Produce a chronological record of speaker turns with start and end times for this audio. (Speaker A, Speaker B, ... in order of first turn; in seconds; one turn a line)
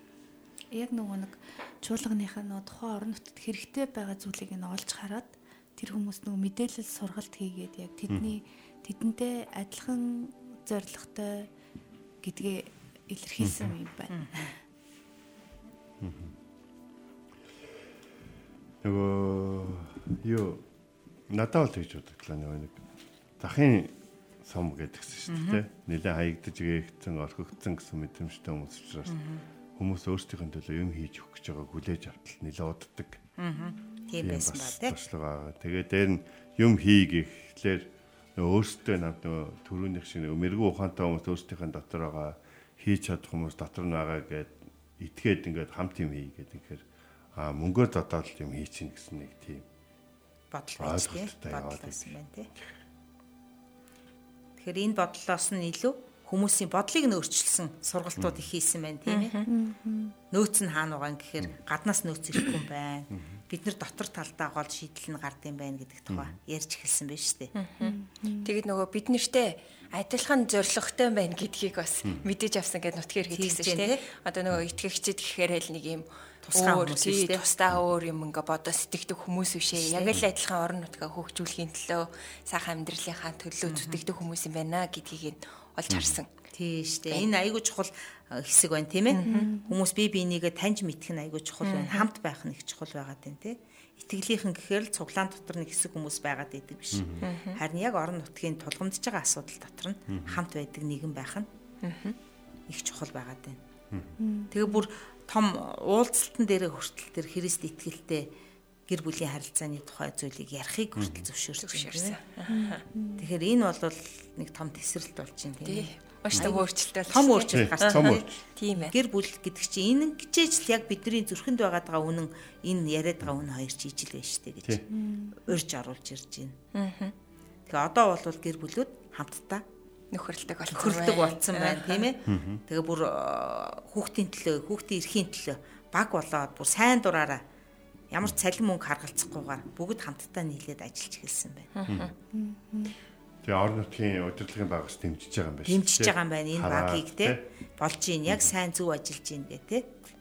Speaker A: 0.7-11.5
Speaker A: 12.2-14.5
Speaker B: 16.0-16.3
Speaker B: 18.8-20.6
Speaker B: 21.3-22.8
Speaker B: 23.4-29.1
Speaker C: 25.3-25.6
Speaker C: 29.1-29.4
Speaker B: 29.8-33.2
Speaker C: 33.4-35.0
Speaker B: 34.2-46.8
Speaker B: 47.4-49.6
Speaker C: 50.5-52.5
Speaker B: 50.8-52.1
Speaker C: 54.6-59.4
Speaker D: 59.1-59.5
Speaker A: 59.5-60.1
Speaker C: 60.3-67.5
Speaker D: 67.5-86.3
Speaker A: 67.8-68.5
Speaker C: 73.3-74.0
Speaker C: 76.5-77.5
Speaker C: 79.7-80.2
Speaker C: 83.7-84.0
Speaker C: 86.5-101.5
Speaker D: 89.1-89.5
Speaker A: 89.2-89.7
Speaker D: 91.6-92.0
Speaker D: 97.2-97.6
Speaker D: 101.8-102.2
Speaker C: 102.7-103.6
Speaker A: 104.2-104.8
Speaker C: 104.5-108.2
Speaker C: 108.9-112.2
Speaker B: 111.0-111.2
Speaker D: 111.6-112.8
Speaker A: 112.5-113.2
Speaker C: 113.2-124.8
Speaker D: 115.7-118.9
Speaker B: 117.5-118.3
Speaker A: 124.9-125.4
Speaker C: 125.4-126.5
Speaker D: 126.7-127.1
Speaker C: 127.7-129.6
Speaker D: 130.1-132.1
Speaker C: 130.7-137.4
Speaker B: 132.3-132.6
Speaker C: 138.1-141.7
Speaker D: 141.8-142.1
Speaker B: 141.9-142.1
Speaker A: 142.3-142.9
Speaker B: 143.4-147.4
Speaker C: 145.7-149.9